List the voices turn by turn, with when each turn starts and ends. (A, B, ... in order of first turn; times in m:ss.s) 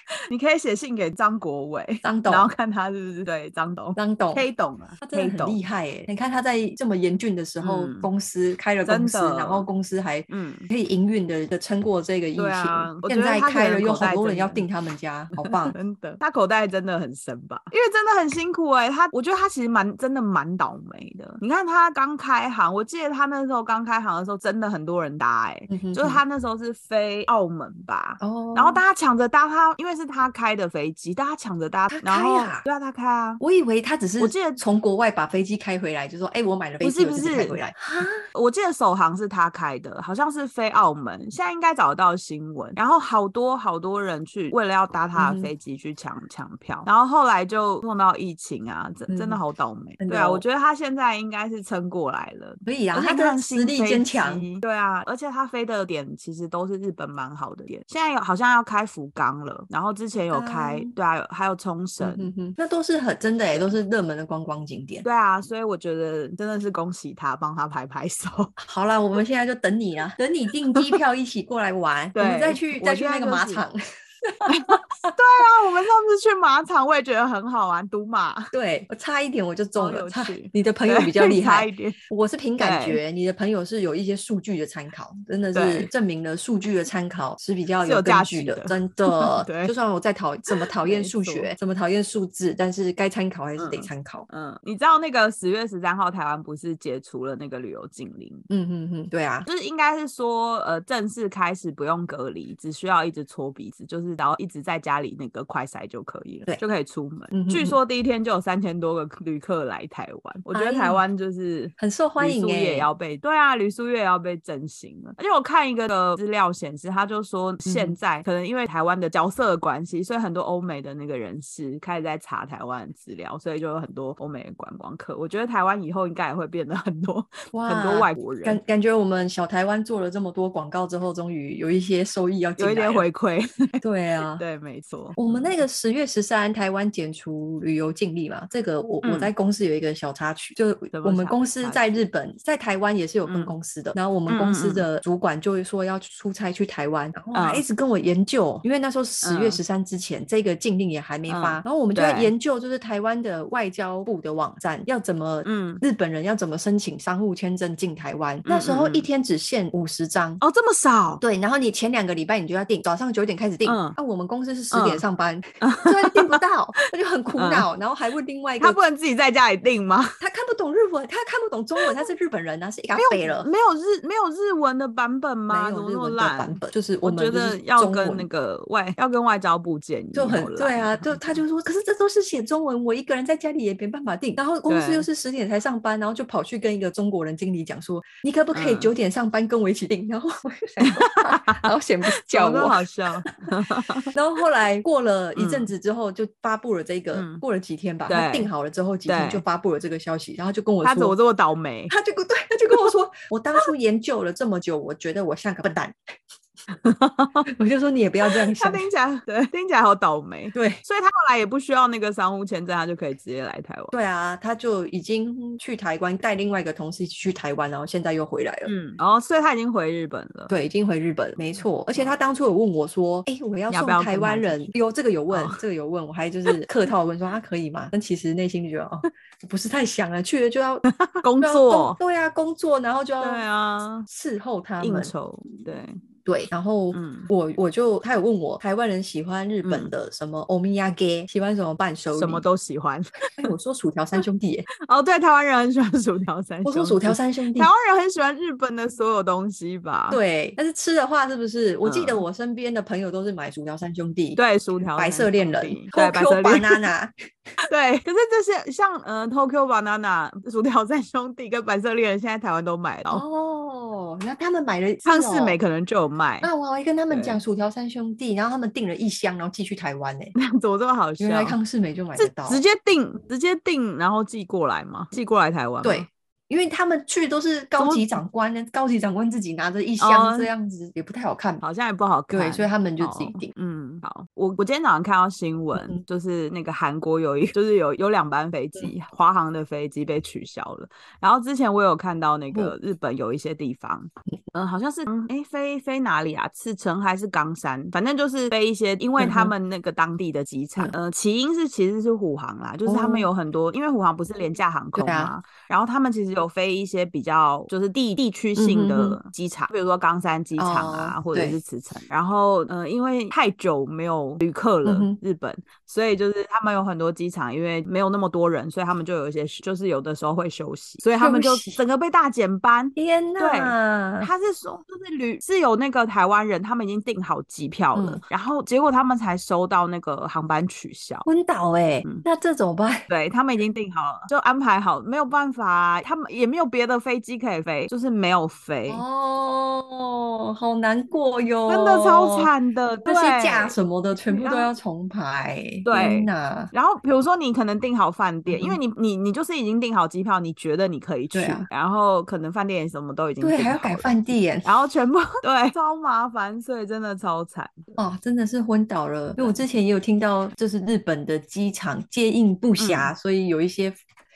0:00.3-0:05.6 A
0:02.0-0:02.5 B
0:04.0-0:04.5 B
0:05.0-0:15.8 B
0:07.6-0:08.1 A
0:08.8-0:09.7 A
0:10.3-0:10.7 A
0:12.4-0:14.7 A
0:15.4-0:33.4 A
0:25.7-0:26.2 B
0:28.2-0:28.8 B
0:31.9-0:32.6 B
0:33.4-0:38.2 B
0:34.2-0:34.6 A
0:36.8-0:37.6 A
0:38.3-1:02.3 A
0:45.2-0:45.5 B
0:49.1-0:49.4 B
0:50.0-0:50.4 B
0:52.7-0:54.4 B
1:00.3-1:00.9 B
1:02.0-1:05.0 B
1:05.0-1:08.6 A
1:08.6-1:15.1 B
1:12.2-1:13.6 A
1:14.5-1:18.5 A
1:18.5-1:34.3 B
1:19.8-1:22.0 A
1:22.6-1:23.0 A
1:25.5-1:25.9 A
1:27.8-1:29.7 A
1:30.5-1:31.5 A
1:33.6-1:38.5 A
1:38.5-1:39.5 B
1:39.5-2:08.6 A
1:47.3-1:47.8 B
1:50.5-1:51.0 B
1:51.8-1:52.9 B
1:57.6-1:58.0 B
2:07.5-2:13.1 B
2:12.6-2:13.8 A
2:13.8-2:14.4 B
2:14.4-2:15.6 A
2:15.2-2:40.4 B
2:19.0-2:19.3 A
2:20.9-2:22.0 A
2:23.3-2:23.6 A
2:24.3-2:24.9 A
2:27.3-2:27.6 A
2:29.2-2:29.6 A
2:31.3-2:32.3 A
2:35.4-2:35.8 A
2:38.5-2:39.1 A
2:40.4-2:41.2 A
2:41.2-2:48.8 B
2:43.6-2:44.0 A
2:44.7-2:45.0 A
2:45.6-2:46.4 A
2:47.4-2:47.7 A
2:48.6-2:50.2 A
2:50.2-2:53.5 B
2:53.0-3:01.4 A
2:55.5-2:58.3 B
3:00.1-3:12.8 B
3:04.7-3:05.1 A
3:08.5-3:08.9 A
3:10.8-3:14.1 A
3:14.1-3:21.2 B
3:15.4-3:15.7 A
3:17.1-3:17.4 A
3:18.1-3:18.5 A
3:19.1-3:19.4 A
3:20.8-3:21.9 A
3:21.9-3:26.0 B
3:26.7-3:27.5 A
3:27.5-3:28.9 B
3:28.2-3:34.0 A
3:30.5-3:30.8 B
3:33.9-3:38.7 B
3:38.7-3:40.5 A
3:40.5-3:50.8 B
3:41.6-3:42.2 A
3:43.7-3:44.7 A
3:45.3-3:45.6 A
3:50.9-3:52.0 A
3:51.4-3:53.5 B
3:53.2-3:54.1 A
3:54.1-3:55.1 B
3:54.8-3:56.0 A
3:56.2-4:02.4 B
3:56.9-3:57.3 A
3:59.6-3:59.9 A
4:02.1-4:03.5 A
4:03.4-4:04.7 B
4:04.9-4:10.2 A
4:06.6-4:07.7 B
4:10.1-4:14.4 B
4:11.8-4:12.2 A
4:14.4-4:16.9 A
4:14.9-4:17.1 B
4:17.7-4:23.2 A
4:23.1-4:25.6 B
4:25.0-4:26.5 A
4:26.4-4:30.4 B
4:27.1-4:27.4 A
4:30.4-4:31.6 A
4:31.2-4:32.6 B
4:32.2-4:36.1 A
4:35.8-4:41.6 B
4:37.8-4:38.2 A
4:40.0-4:40.5 A
4:41.6-5:31.3 A
4:42.3-4:43.5 B
4:59.2-4:59.5 B
5:02.9-5:03.3 B
5:05.0-5:05.3 B
5:08.6-5:09.2 B
5:10.6-5:11.6 B
5:14.8-5:15.2 B
5:21.2-5:21.8 B
5:23.0-5:24.3 B
5:28.0-5:28.2 B
5:31.3-5:33.1 B
5:33.1-5:39.0 A
5:38.9-5:42.5 B
5:41.7-5:43.8 A
5:43.0-5:46.7 B
5:44.3-5:44.7 A
5:45.8-5:57.9 A
5:48.5-5:48.8 B
5:51.3-5:51.7 B
5:53.4-5:54.7 B
5:58.0-6:04.0 B
6:02.8-6:03.1 A